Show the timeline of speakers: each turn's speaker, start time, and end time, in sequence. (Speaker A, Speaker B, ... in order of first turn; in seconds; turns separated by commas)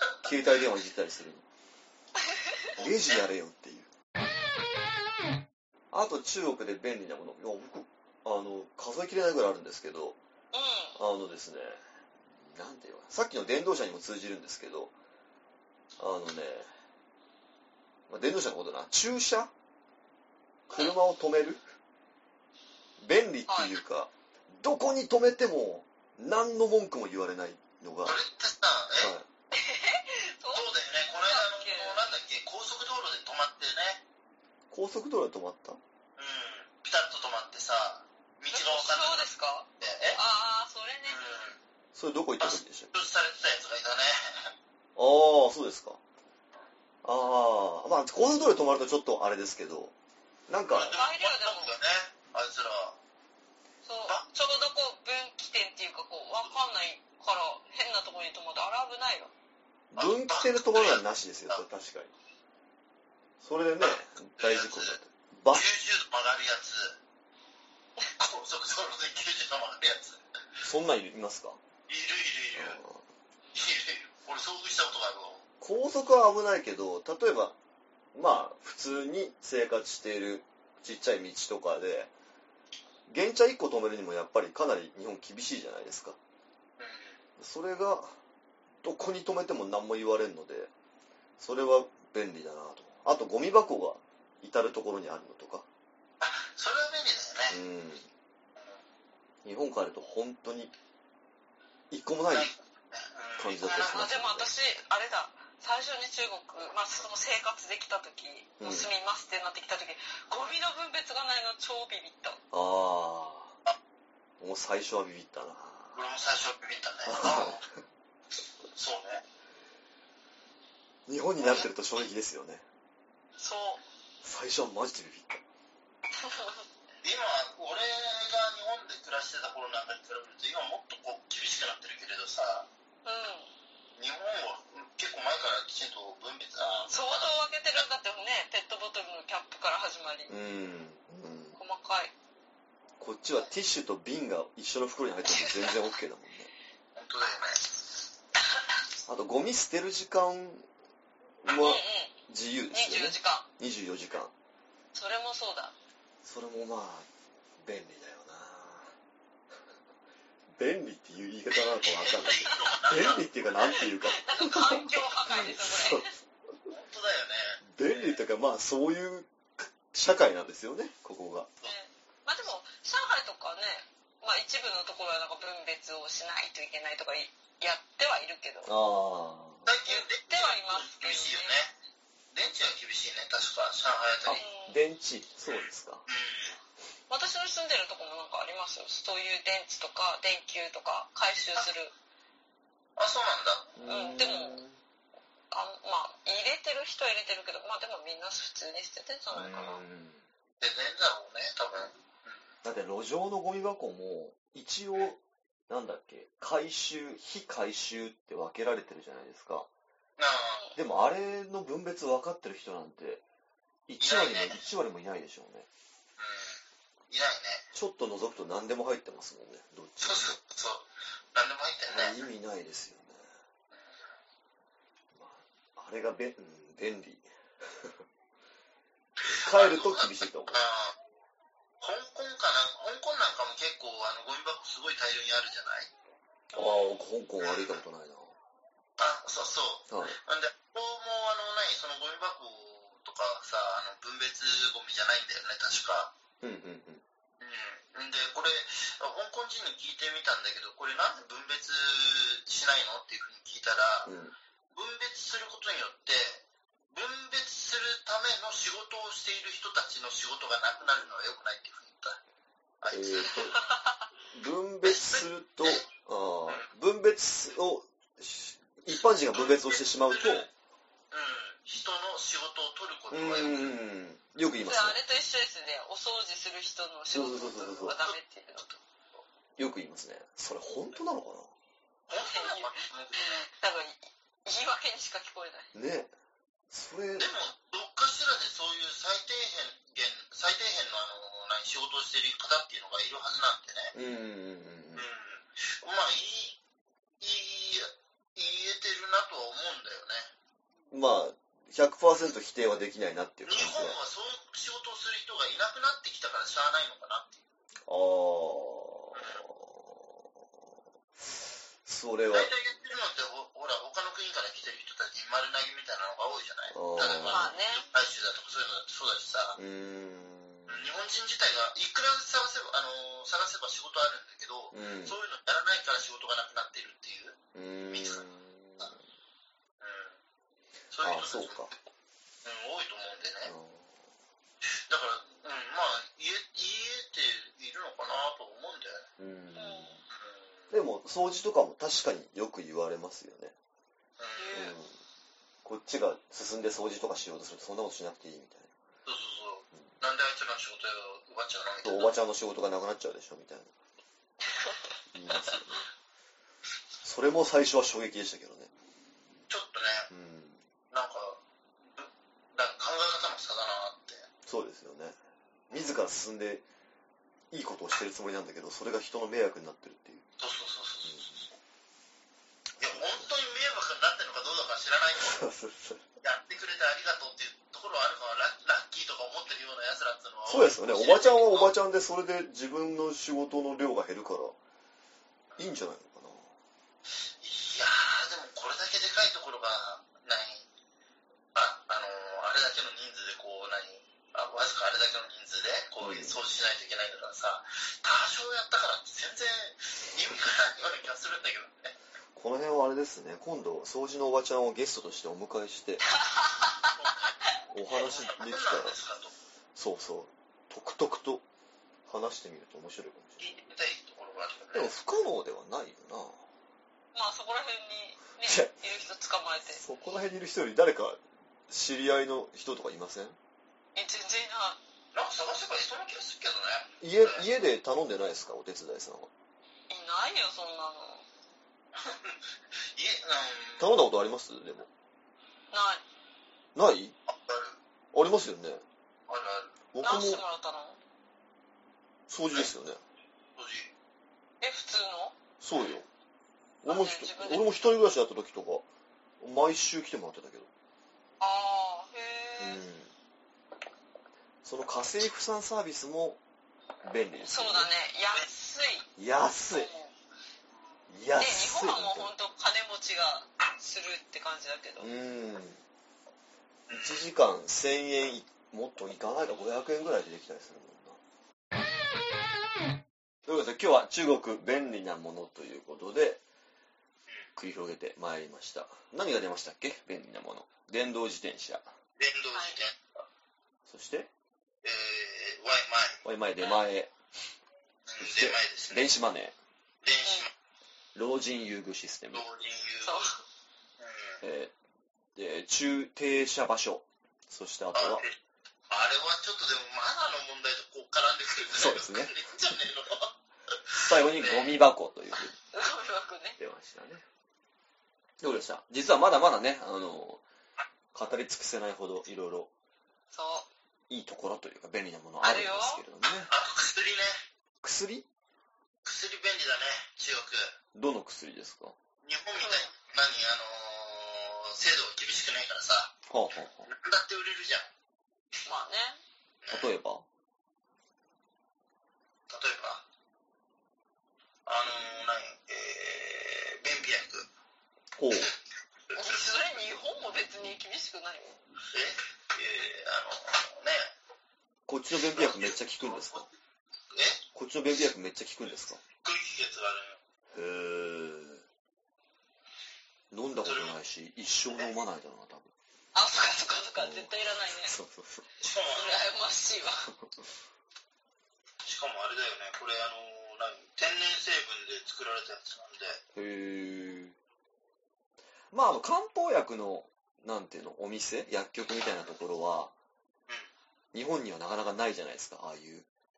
Speaker A: 0.2-1.4, Speaker B: 2.3-2.6, Speaker C: 2.8-3.2, Speaker A: 2.8-3.9, Speaker A: 5.9-10.2, Speaker B: 10.5-11.0, Speaker A: 10.9-14.9, Speaker A: 16.0-16.7, Speaker A: 18.1-19.5, Speaker A: 20.7-21.6, Speaker A: 23.0-28.2, Speaker B: 23.5-23.8, Speaker C: 28.0-29.1, Speaker A: 29.0-29.3, Speaker B: 29.5-32.0, Speaker C: 30.5-34.0, Speaker A: 34.7-35.8, Speaker C: 36.2-40.2, Speaker B: 38.5-41.2, Speaker C: 41.1-41.6, Speaker A: 41.9-43.0, Speaker C: 42.4-44.5, Speaker A: 45.0-46.0, Speaker A: 47.0-49.9, Speaker A: 50.5-50.9, Speaker C: 50.7-53.0, Speaker B: 50.9-51.7, Speaker B: 53.8-59.3, Speaker A: 59.9-62.1, Speaker C: 60.0-61.6, Speaker A: 63.4-65.7, Speaker C: 63.8-65.0, Speaker C: 65.5-67.0, Speaker C: 68.2-70.2, Speaker A: 70.6-71.6, Speaker C: 71.9-72.8, Speaker A: 72.5-73.0, Speaker C: 73.5-75.4, Speaker A: 75.6-77.5, Speaker A: 78.1-82.1, Speaker A: 83.1-86.2, Speaker C: 86.8-87.2, Speaker A: 87.4-88.2, Speaker A: 88.8-90.7, Speaker A: 91.4-95.7, Speaker C: 96.2-97.6, Speaker A: 97.5-98.1, Speaker A: 99.4-100.7, Speaker A: 101.9-102.5, Speaker C: 102.3-104.1, Speaker A: 103.4-104.5, Speaker B: 103.9-112.4, Speaker A: 108.6-108.9, Speaker A: 112.5-113.6, Speaker A: 114.4-116.0, Speaker C: 115.9-117.6, Speaker A: 117.1-117.6, Speaker C: 118.7-119.2, Speaker A: 121.1-122.6, Speaker B: 123.4-123.8, Speaker A: 124.2-125.4, Speaker B: 126.2-126.6, Speaker C: 127.0-132.7, Speaker B: 133.0-133.5, Speaker C: 134.0-137.8, Speaker B: 136.9-140.3, Speaker A: 140.3-141.6, Speaker B: 141.6-142.1, Speaker A: 143.0-146.5, Speaker B: 145.3-145.7, Speaker C: 146.9-147.6, Speaker A: 149.1-150.7, Speaker A: 151.4-154.3, Speaker B: 151.5-152.1, Speaker B: 152.7-153.4, Speaker B: 154.9-155.7, Speaker A: 156.2-157.1, Speaker A: 157.6-158.9, Speaker A: 160.5-166.1, Speaker C: 161.5-163.3, Speaker B: 163.8-166.1, Speaker C: 166.7-168.2, Speaker A: 167.7-171.5, Speaker B: 171.6-178.7, Speaker A: 178.6-179.7, Speaker C: 179.7-181.7, Speaker B: 179.8-181.6, Speaker C: 182.3-184.4, Speaker A: 184.2-186.0, Speaker B: 184.3-184.8, Speaker C: 185.5-186.6, Speaker B: 187.1-191.9, Speaker C: 193.0-193.7, Speaker A: 193.8-194.8, Speaker B: 193.8-194.6, Speaker B: 195.5-199.8, Speaker A: 199.3-200.2, Speaker C: 200.6-202.4, Speaker A: 202.6-209.7, Speaker C: 210.2-210.6, Speaker A: 210.8-213.2, Speaker A: 213.9-215.7, Speaker C: 214.0-214.6, Speaker C: 216.2-216.6, Speaker C: 217.1-217.6, Speaker A: 217.7-220.4, Speaker C: 220.0-222.2, Speaker A: 221.9-223.3, Speaker C: 223.7-224.1, Speaker A: 225.1-228.0, Speaker C: 229.2-230.9, Speaker A: 229.2-230.6, Speaker C: 231.8-235.9, Speaker A: 236.5-238.3, Speaker B: 236.5-236.9, Speaker C: 237.4-237.8, Speaker C: 239.0-246.1, Speaker A: 239.9-240.2, Speaker A: 246.4-247.0, Speaker C: 247.4-254.1, Speaker A: 254.1-254.3, Speaker C: 254.7-262.2, Speaker C: 262.8-263.5, Speaker A: 262.9-263.6, Speaker B: 263.5-264.0, Speaker A: 264.3-270.5, Speaker C: 264.8-265.9, Speaker C: 269.2-270.5, Speaker C: 271.1-273.8, Speaker A: 273.1-275.0, Speaker B: 274.6-278.8, Speaker A: 277.1-278.0, Speaker A: 279.6-281.5, Speaker C: 282.1-283.4, Speaker B: 282.2-285.7, Speaker A: 285.7-286.1, Speaker A: 286.7-287.3, Speaker C: 287.2-293.9, Speaker A: 293.9-295.0, Speaker C: 294.9-296.6, Speaker C: 297.2-300.3, Speaker A: 300.9-304.0, Speaker C: 303.4-307.4, Speaker A: 307.9-310.4, Speaker C: 309.1-309.4, Speaker A: 311.8-312.5, Speaker C: 312.3-319.6, Speaker A: 316.7-317.5, Speaker B: 317.3-317.9, Speaker A: 319.6-320.9, Speaker C: 320.7-327.4, Speaker A: 324.7-325.1, Speaker A: 327.5-329.0, Speaker C: 327.9-328.2, Speaker C: 329.8-330.2, Speaker C: 330.9-331.7, Speaker A: 331.0-331.7, Speaker C: 332.4-333.5, Speaker A: 333.4-334.0, Speaker C: 334.9-339.1, Speaker A: 339.2-340.0, Speaker B: 339.5-340.0, Speaker C: 340.1-340.6, Speaker A: 340.7-343.5, Speaker C: 344.2-344.7, Speaker B: 344.4-344.7, Speaker A: 344.5-345.0, Speaker A: 345.6-348.7, Speaker C: 349.1-352.1, Speaker A: 351.8-353.7, Speaker A: 355.1-355.8, Speaker A: 357.0-358.7, Speaker C: 359.5-360.1, Speaker A: 360.1-360.6, Speaker C: 360.9-361.4, Speaker C: 361.9-364.3, Speaker A: 364.4-365.2, Speaker A: 365.7-366.6, Speaker A: 367.5-370.2, Speaker C: 370.4-371.5, Speaker A: 372.8-373.3, Speaker C: 372.8-375.4, Speaker A: 375.1-376.0, Speaker C: 376.2-381.7, Speaker A: 380.4-384.6, Speaker A: 385.6-386.5, Speaker C: 387.4-390.6, Speaker C: 391.5-401.9, Speaker A: 396.0-396.4, Speaker A: 402.4-406.0, Speaker B: 406.2-407.1, Speaker C: 407.0-407.3, Speaker A: 407.7-408.9, Speaker C: 408.0-409.3, Speaker A: 409.7-411.4, Speaker A: 412.1-413.4, Speaker C: 413.4-414.9, Speaker A: 414.7-416.5, Speaker B: 417.1-419.8, Speaker A: 418.4-418.7, Speaker A: 419.7-423.4, Speaker B: 423.9-424.8, Speaker C: 425.1-427.4, Speaker A: 427.0-429.3, Speaker B: 429.9-431.2, Speaker C: 432.0-432.4, Speaker C: 432.9-434.0, Speaker A: 433.8-434.9, Speaker B: 435.7-436.0, Speaker A: 436.7-437.1, Speaker C: 437.3-437.8, Speaker A: 438.1-438.8, Speaker C: 439.3-439.7, Speaker A: 439.9-440.4, Speaker B: 440.0-441.0, Speaker A: 442.3-443.0, Speaker C: 443.6-443.9, Speaker B: 444.6-445.3, Speaker A: 445.6-446.1, Speaker C: 445.7-446.0, Speaker A: 446.8-448.9, Speaker B: 446.8-447.7, Speaker A: 449.4-450.7, Speaker B: 451.4-452.8, Speaker A: 452.6-453.1, Speaker A: 454.6-456.4, Speaker A: 457.0-457.9, Speaker B: 457.4-459.1, Speaker A: 459.2-459.9, Speaker B: 459.7-460.1, Speaker A: 461.1-462.3, Speaker B: 461.4-465.1, Speaker A: 465.0-465.8, Speaker C: 466.9-467.2, Speaker A: 466.9-471.2, Speaker A: 473.4-476.4, Speaker A: 477.6-481.9, Speaker C: 482.2-483.2, Speaker B: 482.5-482.8, Speaker A: 483.9-484.3, Speaker C: 484.8-486.2, Speaker A: 486.2-487.1, Speaker C: 488.1-489.1, Speaker A: 488.2-489.6, Speaker C: 490.0-490.5, Speaker B: 490.2-490.5, Speaker A: 491.1-492.4, Speaker C: 492.3-493.3, Speaker B: 493.0-493.4, Speaker C: 494.0-494.4, Speaker A: 494.4-494.7, Speaker A: 495.4-498.2, Speaker C: 497.9-498.4, Speaker C: 498.9-503.3, Speaker A: 501.7-502.4, Speaker C: 503.9-504.8, Speaker A: 503.9-505.6, Speaker B: 505.7-506.6, Speaker A: 506.6-507.2, Speaker A: 508.4-510.4, Speaker A: 511.1-512.7, Speaker B: 513.3-513.7, Speaker A: 514.1-516.5, Speaker B: 515.4-516.0, Speaker C: 516.5-517.4, Speaker A: 517.8-518.2, Speaker C: 519.0-520.7, Speaker A: 520.9-522.0, Speaker C: 522.2-526.2, Speaker B: 522.5-522.9, Speaker A: 526.3-526.9, Speaker C: 526.9-527.9, Speaker B: 528.6-529.2, Speaker C: 529.6-529.9, Speaker A: 529.7-530.2, Speaker C: 532.5-533.0, Speaker C: 534.6-537.5, Speaker A: 538.1-538.5, Speaker B: 539.1-541.6, Speaker C: 539.1-539.4, Speaker C: 541.9-544.1, Speaker A: 544.9-546.5, Speaker C: 545.2-546.5, Speaker C: 547.1-547.4, Speaker A: 547.5-549.0, Speaker C: 549.2-550.2, Speaker A: 550.5-551.6, Speaker A: 553.3-555.7, Speaker C: 553.6-553.9, Speaker B: 556.1-557.9, Speaker A: 557.0-558.5, Speaker C: 558.6-559.2, Speaker B: 558.7-560.1, Speaker C: 561.8-566.2, Speaker A: 566.3-567.4, Speaker A: 568.7-572.9, Speaker A: 574.1-576.1